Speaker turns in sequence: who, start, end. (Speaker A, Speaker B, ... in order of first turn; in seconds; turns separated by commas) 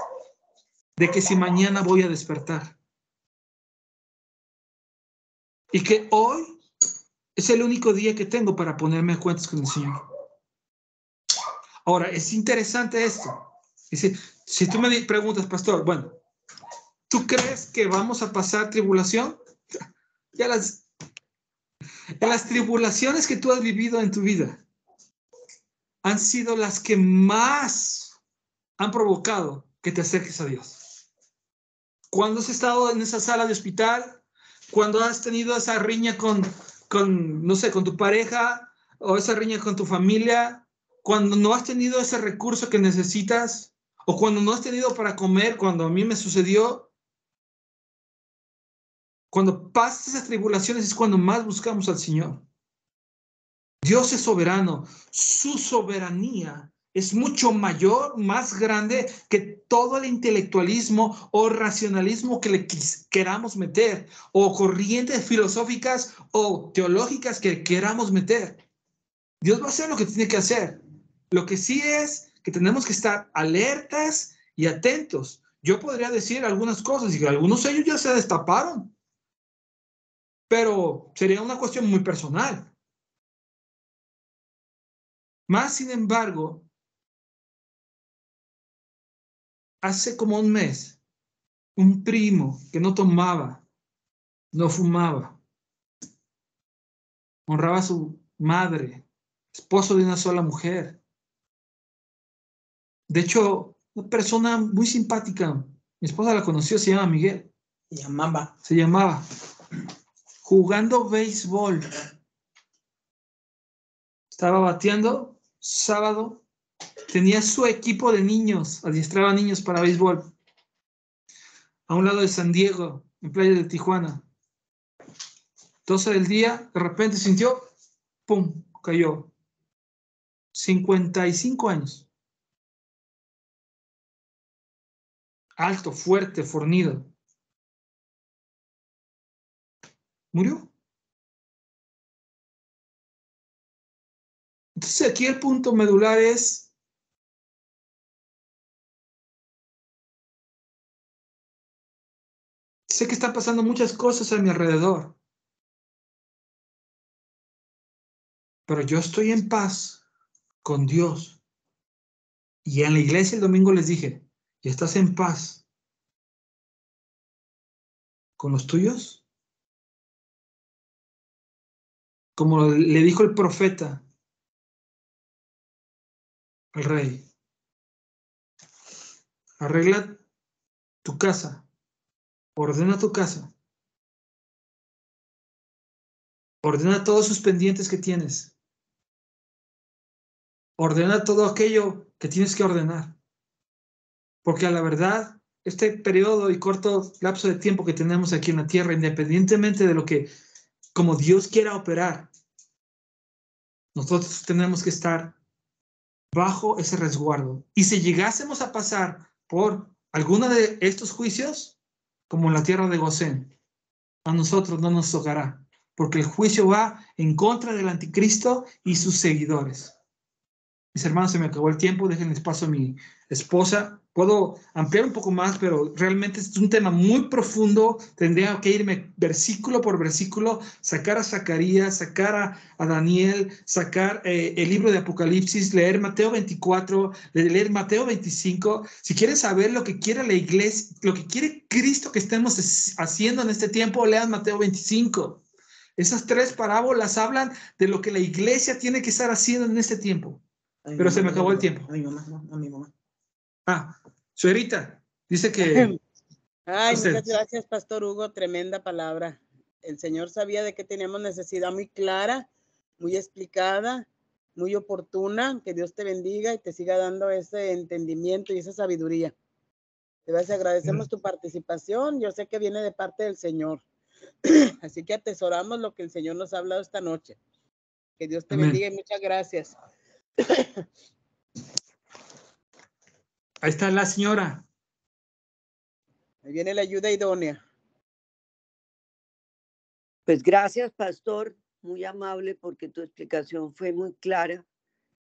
Speaker A: 0.9-2.8, Speaker A: 5.7-6.6, Speaker A: 7.3-10.0, Speaker A: 11.8-13.3, Speaker A: 13.9-16.1, Speaker A: 17.1-19.4, Speaker A: 20.3-20.8, Speaker A: 22.2-24.6, Speaker A: 26.0-28.1, Speaker A: 28.8-30.8, Speaker A: 32.1-46.9, Speaker A: 49.3-52.4, Speaker A: 53.8-68.6, Speaker A: 69.4-70.8, Speaker A: 71.3-78.9, Speaker A: 80.5-82.7, Speaker A: 85.5-86.7, Speaker A: 89.8-91.0, Speaker A: 91.8-93.6, Speaker A: 94.5-95.4, Speaker A: 97.5-101.0, Speaker A: 103.1-107.5, Speaker B: 107.9-108.5, Speaker A: 108.6-109.2, Speaker A: 110.4-111.9, Speaker A: 114.3-116.4, Speaker A: 117.1-120.3, Speaker A: 121.9-124.2, Speaker A: 125.8-127.7, Speaker A: 128.3-129.3, Speaker A: 130.5-132.1, Speaker A: 135.6-137.1, Speaker A: 140.3-140.7, Speaker A: 144.8-146.7, Speaker A: 152.9-155.2, Speaker A: 158.7-160.0, Speaker A: 160.6-161.4, Speaker A: 162.6-165.6, Speaker A: 168.4-169.2, Speaker A: 172.3-174.0, Speaker A: 176.7-177.3, Speaker A: 179.6-180.2, Speaker A: 181.0-181.6, Speaker A: 182.6-183.5, Speaker A: 186.6-188.5, Speaker A: 190.8-193.2, Speaker A: 194.4-200.3, Speaker A: 200.9-202.3, Speaker A: 203.9-205.4, Speaker A: 206.3-211.8, Speaker A: 212.3-213.5, Speaker A: 214.2-219.9, Speaker A: 220.9-245.4, Speaker A: 246.0-250.4, Speaker B: 250.8-252.9, Speaker A: 251.0-251.9, Speaker A: 253.7-255.9, Speaker C: 255.6-255.9, Speaker C: 256.7-262.5, Speaker A: 256.9-257.3, Speaker C: 263.0-269.3, Speaker C: 270.3-273.8, Speaker C: 274.4-277.4, Speaker C: 278.2-279.8, Speaker A: 278.5-278.8, Speaker A: 283.6-284.6, Speaker C: 286.4-287.6, Speaker D: 290.3-294.6